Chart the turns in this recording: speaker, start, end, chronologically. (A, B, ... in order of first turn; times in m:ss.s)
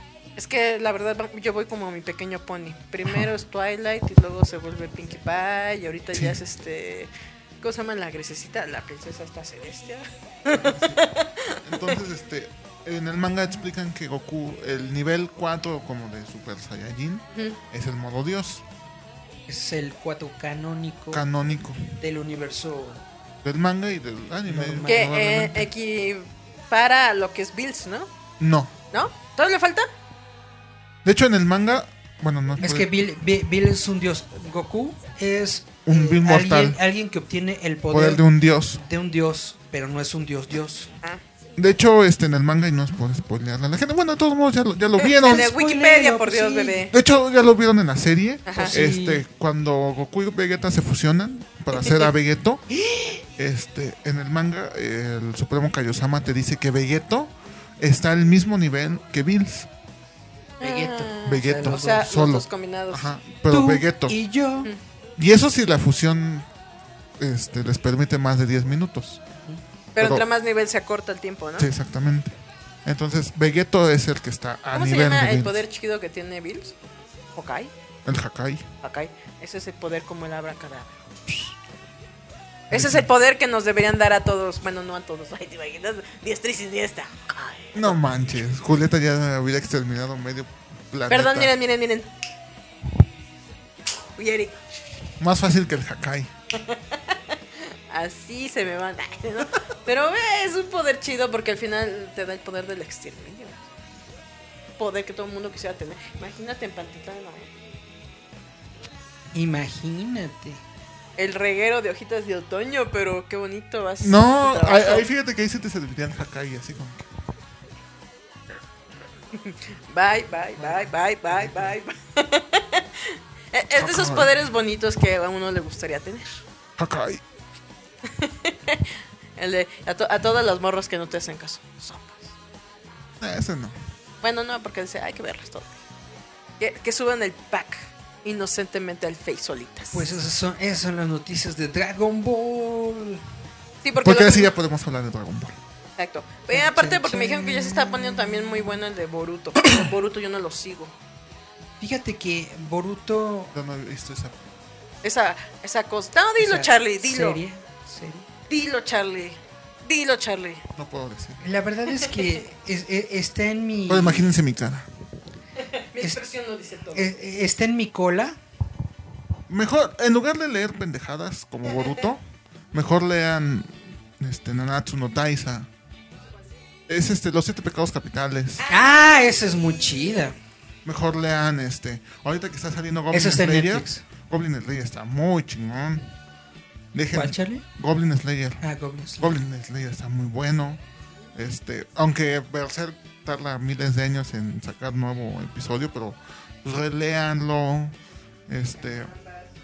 0:00.4-0:07.1 A
0:03.0-0:03.3 B
0:06.1-0:06.4 B
0:07.6-0:12.0 A
0:10.5-0:11.1 B
0:11.6-0:18.6 B
0:19.5-0:21.2 C
0:21.1-0:21.9 B
0:22.0-0:23.0 C
0:23.4-0:25.7 B
0:24.5-0:25.1 C
0:24.8-0:28.1 A
0:28.4-0:28.7 B
0:28.9-0:29.9 A
0:31.0-0:32.9 B
0:32.6-0:40.9 C
0:35.8-0:36.8 B
0:37.9-0:38.8 B
0:41.6-0:45.5 B
0:45.0-0:46.9 A
0:45.2-0:46.8 C
0:46.9-0:52.6 B
0:48.5-0:48.8 A
0:48.5-0:49.2 C
0:53.4-0:59.7 B
1:00.6-1:03.1 A
1:00.6-1:01.9 C
1:01.2-1:04.2 B
1:03.5-1:04.7 C
1:05.2-1:06.5 B
1:07.2-1:09.2 B
1:10.0-1:11.7 A
1:10.0-1:10.3 B
1:11.6-1:15.6 B
1:14.7-1:16.7 A
1:17.3-1:17.7 A
1:18.0-1:18.7 B
1:18.8-1:20.9 A
1:22.7-1:28.0 A
1:22.7-1:23.1 B
1:27.7-1:31.5 B
1:31.1-1:32.1 A
1:34.2-1:34.6 A
1:35.2-1:36.3 B
1:36.6-1:37.2 A
1:37.9-1:43.6 A
1:44.8-1:47.5 A
1:49.3-1:50.6 C
1:51.2-1:55.0 A
1:54.0-1:57.1 B
1:59.3-2:06.4 A
2:03.7-2:04.3 B
2:06.8-2:07.2 B
2:08.1-2:12.3 A
2:13.2-2:13.8 B
2:14.2-2:15.7 A
2:16.6-2:20.1 A
2:19.9-2:23.2 C
2:23.8-2:24.5 A
2:24.0-2:25.6 B
2:26.0-2:30.9 A
2:26.5-2:28.0 C
2:31.8-2:33.5 C
2:33.5-2:34.4 B
2:35.0-2:37.4 A
2:36.4-2:38.2 C
2:38.5-2:40.6 A
2:40.7-2:41.4 B
2:41.4-2:44.3 C
2:43.9-2:44.9 B
2:45.6-2:47.1 A
2:46.9-2:48.4 C
2:49.5-2:55.7 B
2:56.9-2:58.6 B
2:58.7-3:00.3 C
3:00.8-3:06.1 B
3:03.1-3:04.0 C
3:06.9-3:08.6 B
3:07.1-3:07.6 C
3:08.6-3:09.3 C
3:09.2-3:10.8 B
3:11.3-3:18.0 B
3:18.5-3:19.1 B